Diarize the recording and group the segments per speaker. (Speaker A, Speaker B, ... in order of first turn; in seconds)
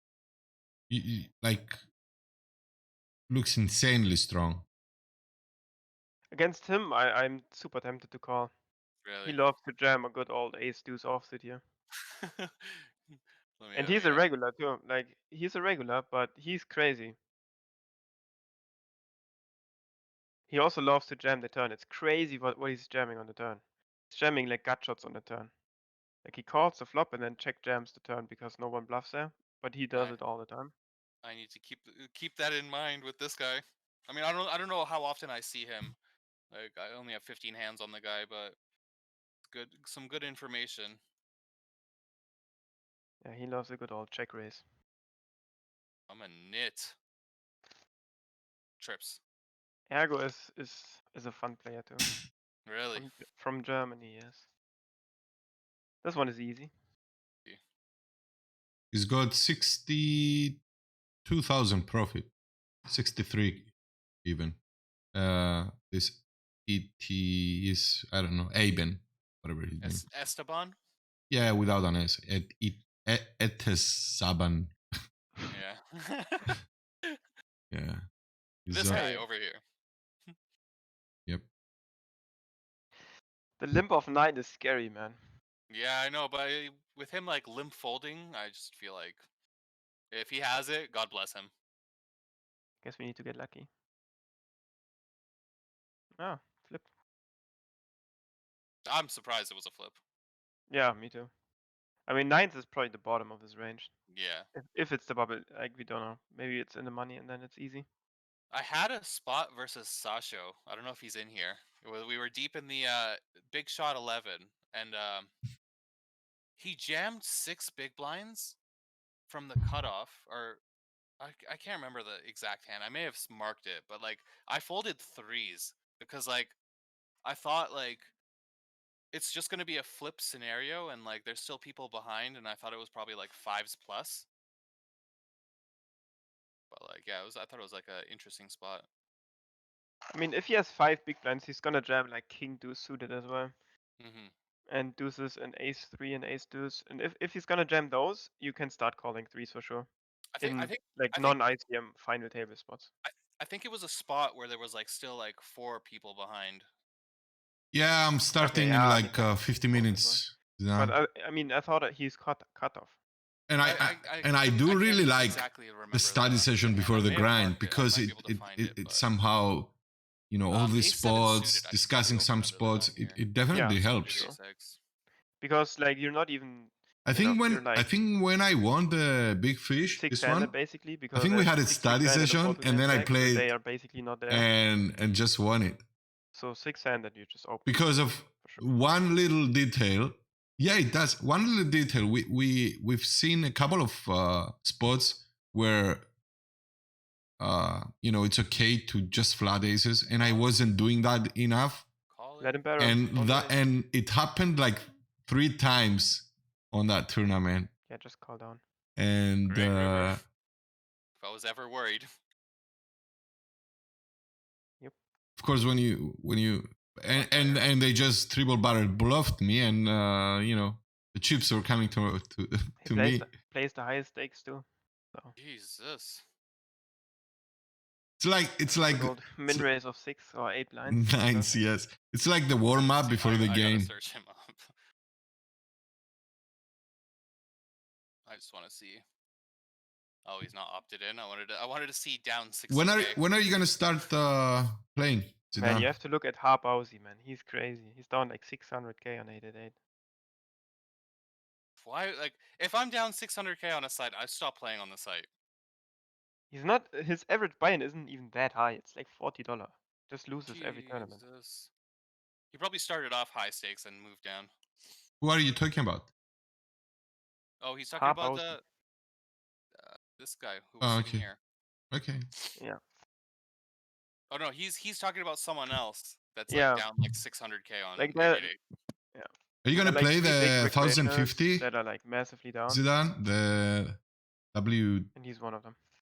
Speaker A: 0.9-1.8, 3.3-4.7, 58.9-60.6, 61.2-62.3, 62.9-63.7, 64.2-64.6, 65.1-70.0, 71.3-74.8, 77.7-78.0, 78.7-79.1, 157.7-161.0, 163.5-169.7, 170.3-174.3, 177.1-183.5, 184.3-185.8, 187.7-196.1, 197.4-201.9, 202.8-207.7, 209.0-210.2, 215.4-223.2, 228.2-229.7, 230.9-233.9, 242.7-245.9, 265.2-266.1, 270.8-271.3, 271.9-272.3, 279.6-281.6, 282.7-284.0, 284.5-285.1
Speaker B: 6.3-8.5, 9.2-11.6, 13.7-17.2, 20.5-25.5, 26.2-30.7, 43.2-44.6, 49.9-52.0, 53.0-54.5, 56.0-56.7, 78.9-79.3, 83.6-85.2, 92.8-93.7, 96.2-96.9, 100.7-101.3, 102.1-103.9, 104.5-107.9, 140.1-143.6, 144.7-149.9, 150.4-152.9, 158.4-160.2, 160.8-163.0, 173.5-174.4, 175.4-177.9, 180.0-184.5, 186.3-188.7, 202.4-203.0, 207.9-208.6, 222.8-225.3, 228.9-231.7, 245.6-249.8, 256.5-261.2, 268.0-268.6, 276.5-276.9, 278.0-278.5, 279.1-282.8, 285.1-285.8
Speaker C: 9.0-9.5, 12.2-14.3, 29.9-30.2, 31.2-36.0, 36.5-38.6, 39.5-41.0, 46.1-47.0, 48.8-49.2, 52.7-53.2, 69.8-70.8, 75.5-76.6, 78.7-79.6, 85.7-89.2, 90.1-91.5, 98.9-100.0, 104.1-104.5, 108.5-115.3, 116.6-118.6, 119.3-120.6, 121.2-126.6, 127.2-128.1, 129.1-134.3, 136.7-138.9, 144.0-144.3, 150.4-151.4, 153.1-156.7, 163.6-169.1, 170.5-174.8, 200.2-200.6, 202.1-203.7, 209.4-210.2, 211.2-212.1, 217.1-217.7, 225.4-226.2, 228.6-229.0, 232.7-234.7, 238.3-239.0, 240.2-243.8, 251.8-255.3, 260.5-261.7, 262.5-265.0, 267.6-268.6, 269.8-271.4, 274.3-278.6